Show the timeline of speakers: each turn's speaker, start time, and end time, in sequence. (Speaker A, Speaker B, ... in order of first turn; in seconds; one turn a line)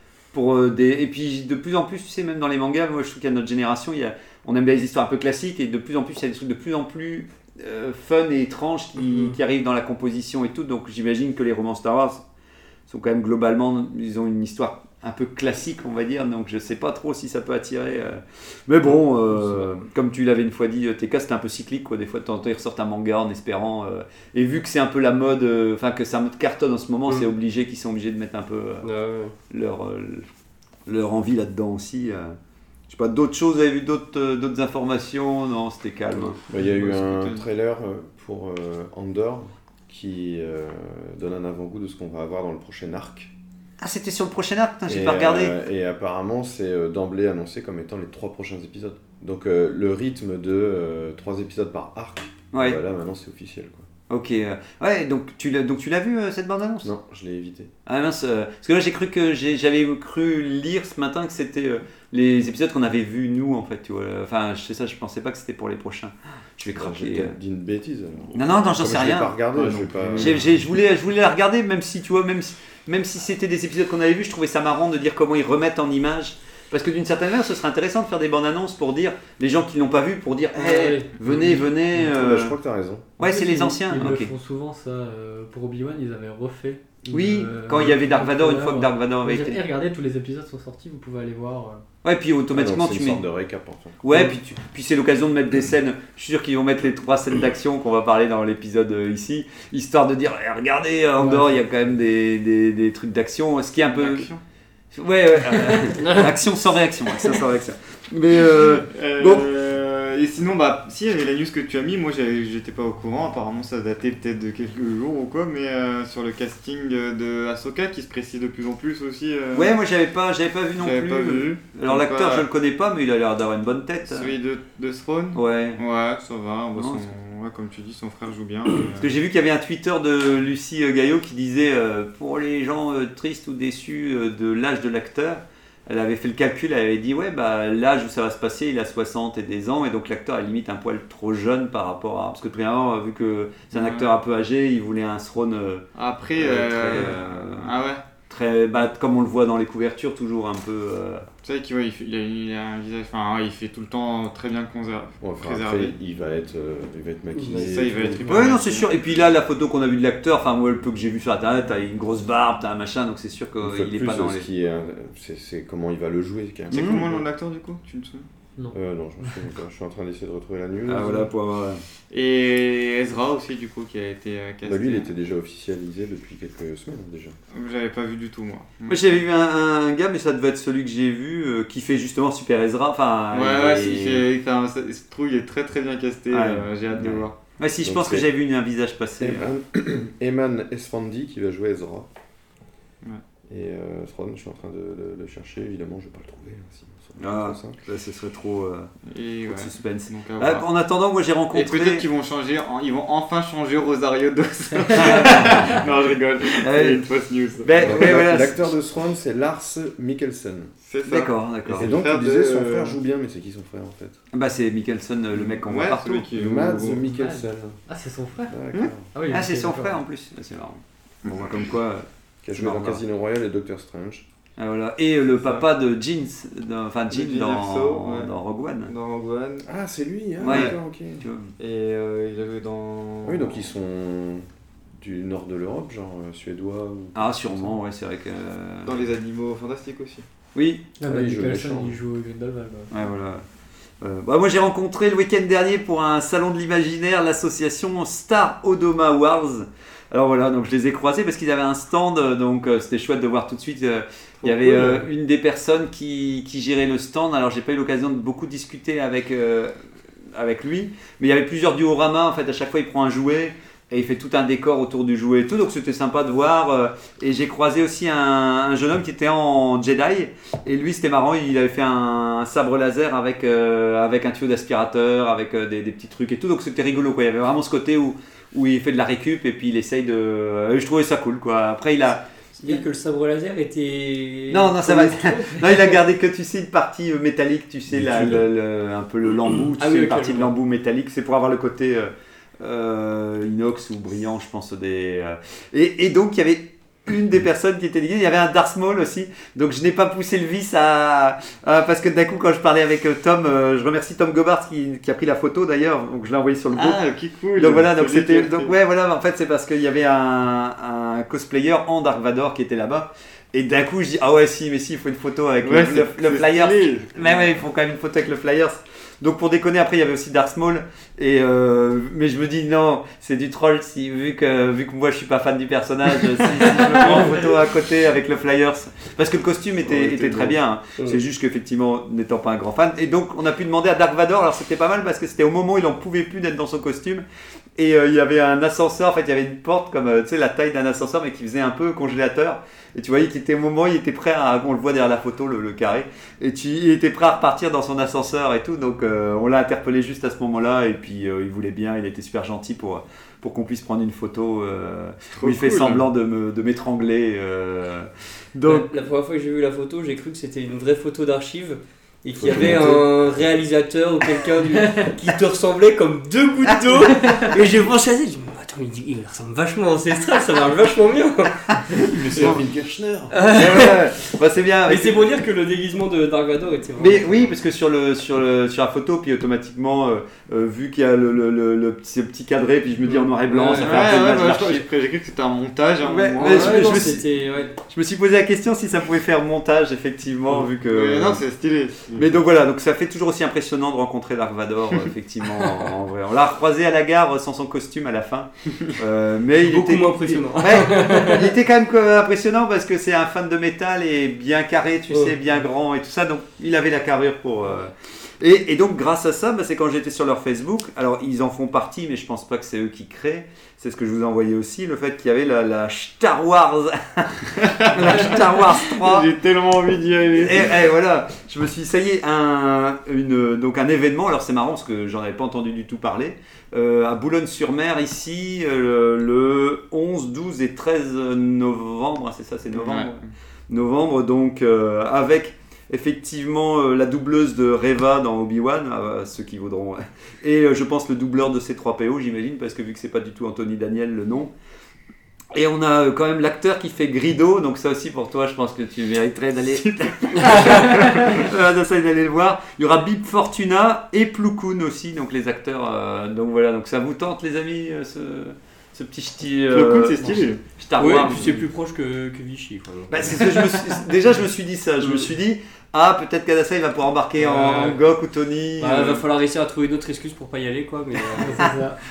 Speaker A: 0.3-12.2
Speaker A: 12.9-28.9
Speaker B: 19.3-19.8
Speaker B: 28.8-29.4
Speaker A: 29.5-30.3
Speaker A: 30.9-32.4
Speaker A: 32.9-36.4
Speaker C: 36.5-43.3
Speaker D: 36.6-37.4
Speaker A: 43.8-45.5
Speaker C: 44.9-53.9
Speaker A: 52.5-52.8
Speaker A: 54.1-56.9
Speaker C: 56.8-57.7
Speaker A: 57.9-67.3
Speaker C: 66.8-70.5
Speaker A: 68.3-69.4
Speaker D: 69.5-70.5
Speaker A: 70.2-82.5
Speaker B: 80.5-81.1
Speaker C: 81.3-83.1
Speaker A: 83.2-84.3
Speaker E: 83.2-91.8
Speaker A: 87.1-89.7
Speaker A: 92.0-93.2
Speaker C: 92.5-94.0
Speaker A: 94.0-104.3
Speaker E: 101.2-101.6
Speaker D: 103.9-104.4
Speaker A: 104.9-109.5
Speaker D: 108.6-119.7
Speaker A: 119.5-124.3
Speaker D: 120.8-122.5
Speaker D: 124.0-129.2
Speaker A: 125.3-125.8
Speaker A: 126.8-127.1
Speaker A: 129.0-147.7
Speaker D: 143.7-144.1
Speaker D: 145.9-148.0
Speaker A: 148.3-151.3
Speaker D: 151.4-156.0
Speaker C: 155.2-158.3
Speaker B: 157.4-157.7
Speaker D: 157.5-158.9
Speaker A: 158.2-164.5
Speaker C: 163.6-167.2
Speaker D: 166.7-168.3
Speaker A: 166.7-167.2
Speaker C: 168.7-171.3
Speaker A: 170.9-171.8
Speaker D: 172.1-175.1
Speaker C: 174.6-177.4
Speaker D: 177.5-179.1
Speaker A: 178.9-184.3
Speaker D: 183.3-187.3
Speaker A: 186.3-189.5
Speaker C: 187.8-188.3
Speaker C: 189.2-192.1
Speaker C: 193.5-197.8
Speaker A: 197.2-198.9
Speaker D: 199.1-200.7
Speaker A: 199.5-202.1
Speaker D: 201.5-208.2
Speaker A: 205.0-205.8
Speaker A: 206.6-207.1
Speaker A: 207.6-208.6
Speaker C: 207.8-210.7
Speaker D: 210.8-213.0
Speaker A: 211.1-212.0
Speaker C: 211.8-214.2
Speaker A: 214.3-216.3
Speaker D: 215.3-217.0
Speaker C: 216.3-217.8
Speaker E: 217.1-218.6
Speaker C: 218.5-219.1
Speaker A: 218.7-223.0
Speaker E: 219.1-220.0
Speaker C: 222.4-224.3
Speaker A: 224.6-228.9
Speaker D: 225.4-225.7
Speaker D: 227.1-228.3
Speaker D: 228.8-229.7
Speaker C: 229.7-231.2
Speaker D: 230.4-230.8
Speaker A: 230.4-231.5
Speaker D: 231.6-233.6
Speaker C: 233.2-234.5
Speaker C: 235.0-237.8
Speaker A: 237.2-239.1
Speaker D: 238.8-240.3
Speaker A: 240.6-240.9
Speaker E: 241.0-242.9
Speaker C: 241.0-242.0
Speaker A: 242.9-243.4
Speaker A: 244.0-259.7
Speaker D: 254.4-255.0
Speaker A: 260.3-282.2
Speaker B: 282.6-286.0
Speaker A: 284.5-307.0
Speaker C: 287.9-288.5
Speaker B: 289.8-290.5
Speaker D: 306.7-308.7
Speaker A: 307.6-337.2
Speaker D: 315.6-317.5
Speaker C: 329.9-330.6
Speaker A: 337.8-358.9
Speaker D: 355.4-356.1
Speaker B: 358.6-371.9
Speaker C: 362.4-363.1
Speaker A: 372.0-372.6
Speaker C: 372.1-373.5
Speaker B: 373.3-373.9
Speaker A: 373.5-375.3
Speaker B: 374.9-377.5
Speaker A: 377.0-384.9
Speaker B: 383.5-384.1
Speaker D: 383.7-387.2
Speaker A: 386.0-387.2
Speaker B: 386.4-387.8
Speaker A: 387.9-391.4
Speaker D: 390.6-392.4
Speaker A: 392.1-419.3
Speaker B: 399.6-401.5
Speaker D: 417.6-420.8
Speaker A: 420.3-444.5
Speaker D: 432.7-433.2
Speaker A: 445.5-461.6
Speaker D: 450.2-451.5
Speaker D: 459.7-460.6
Speaker B: 461.0-463.5
Speaker A: 463.1-469.2
Speaker B: 467.4-468.0
Speaker B: 468.8-471.6
Speaker E: 471.4-472.0